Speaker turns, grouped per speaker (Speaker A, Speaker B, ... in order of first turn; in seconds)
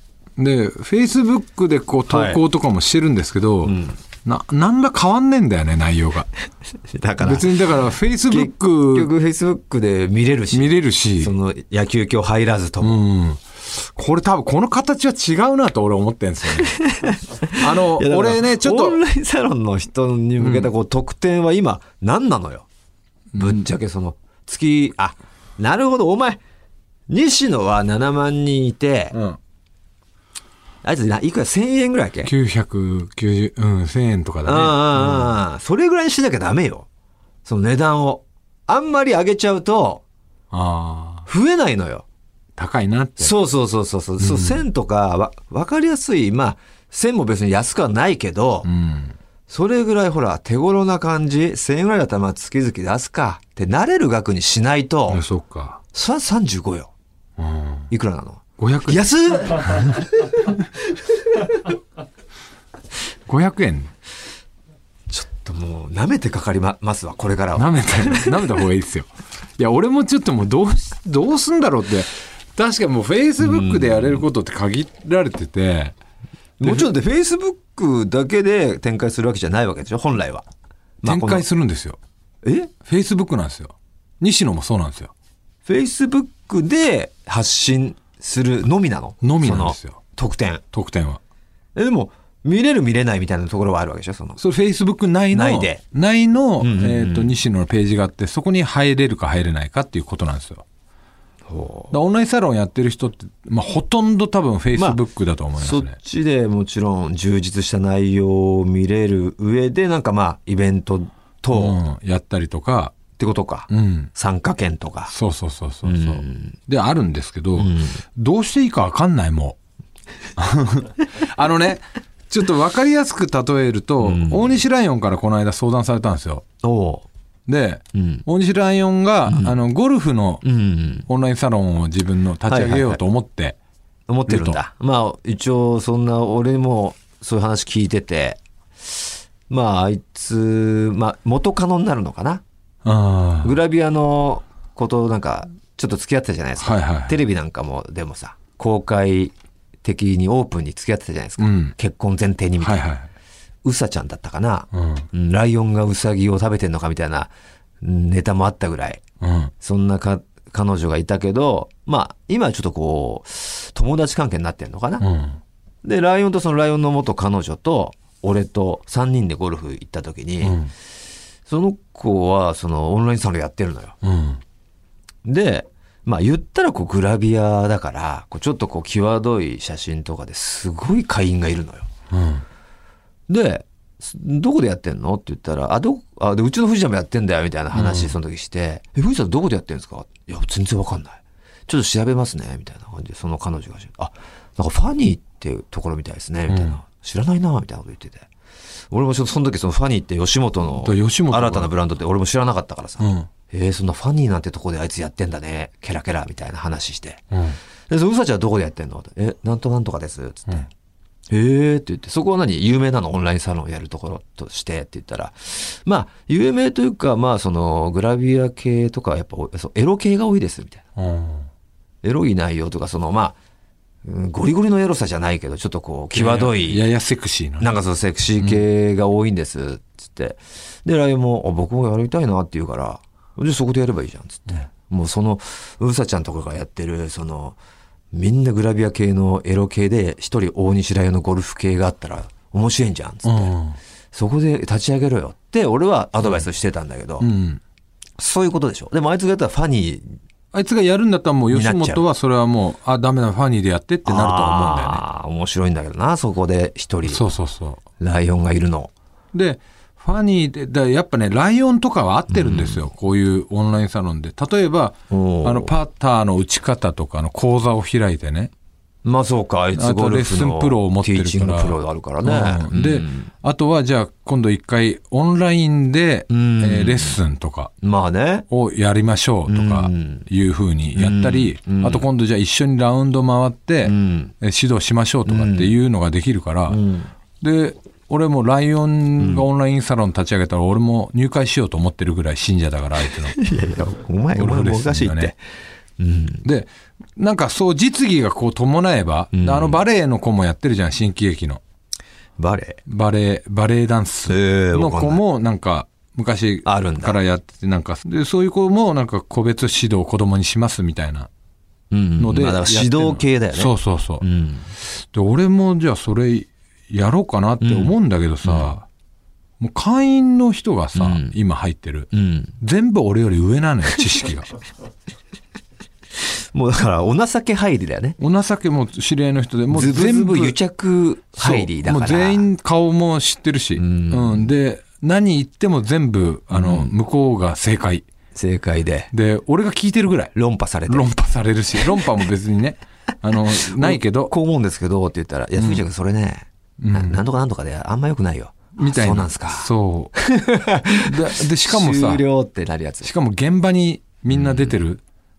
Speaker A: 0.4-6.3, 7.2-9.1, 10.5-11.3, 12.8-16.8, 17.6-19.0, 20.4-20.7, 23.4-23.7, 29.1-29.4, 32.2-35.4, 40.5-41.3, 42.6-43.3, 44.2-44.6, 48.6-49.1, 55.1-55.8, 57.4-57.9, 58.6-59.0, 63.3-63.9, 67.5-76.0, 76.6-76.9, 81.0-82.0, 82.8-85.1, 89.2-90.0, 90.7-91.2, 94.4-100.7, 101.9-106.0, 111.5-113.0, 113.7-114.1, 115.1-119.6, 120.4-126.5, 127.5-130.4, 131.1-133.6, 134.3-134.6, 142.8-143.6, 146.6-147.2, 151.4-151.7, 152.6-153.1, 154.7-155.1, 159.2-159.5, 165.0-165.4, 170.4-170.7, 174.0-174.4, 182.1-182.4, 187.7-188.1, 196.5-196.8, 200.8-201.7, 203.0-203.3, 221.0-221.5, 226.1-227.7, 243.2-243.8, 247.2-247.6, 250.5-255.0, 257.1-257.8, 259.3-268.5, 269.8-277.7, 278.5-286.8, 287.4-293.4, 294.3-295.3, 296.4-301.6, 302.9-311.3, 312.2-314.2, 314.9-318.9, 319.6-324.5, 328.2-330.6, 331.4-338.1, 339.1-340.3, 340.9-344.3, 345.6-345.8, 346.8-347.2, 348.8-350.1, 351.1-352.2, 353.0-355.0
Speaker B: 2.1-2.4, 3.6-4.0, 6.9-7.5, 8.3-13.0, 16.6-22.7, 23.4-26.4, 27.1-29.2, 30.8-32.3, 34.5-36.9, 37.5-40.0, 41.3-42.1, 43.2-48.7, 49.5-55.2, 55.9-56.9, 57.9-60.0, 65.1-68.4, 73.4-74.2, 76.6-80.5, 81.0-81.4, 82.4-82.7, 85.7-90.6, 91.8-94.4, 95.3-95.8, 96.6-97.3, 101.5-101.9, 105.6-111.8, 113.2-115.1, 115.8-116.6, 117.6-118.0, 124.0-124.5, 126.6-127.0, 127.9-128.2, 129.3-129.6, 130.4-131.1, 132.5-133.0, 134.1-142.4, 143.4-152.9, 153.6-159.0, 159.6-165.1, 165.8-170.6, 171.5-174.0, 175.2-181.9, 183.3-198.3, 198.9-207.3, 207.9-210.7, 211.3-220.8, 222.0-223.3, 224.0-226.8, 227.6-237.6, 238.1-243.6, 244.1-247.3, 248.2-250.2, 251.5-252.0, 254.1-257.2, 258.0-258.9, 262.3-262.8, 265.1-265.8, 269.1-273.3, 276.3-277.2, 277.8-278.5, 279.5-280.3, 280.9-282.1, 283.8-284.3, 285.3-285.7, 286.7-287.1, 289.2-289.4, 293.4-295.4, 296.0-296.4, 299.3-299.8, 302.4-302.8, 304.3-305.2, 306.7-307.2, 311.9-314.7, 317.6-318.7, 321.0-321.4, 322.1-322.5, 326.5-328.2, 329.7-332.5, 333.8-334.5, 336.5-336.9, 338.4-339.1, 340.4-341.1, 343.8-353.1, 354.3-354.8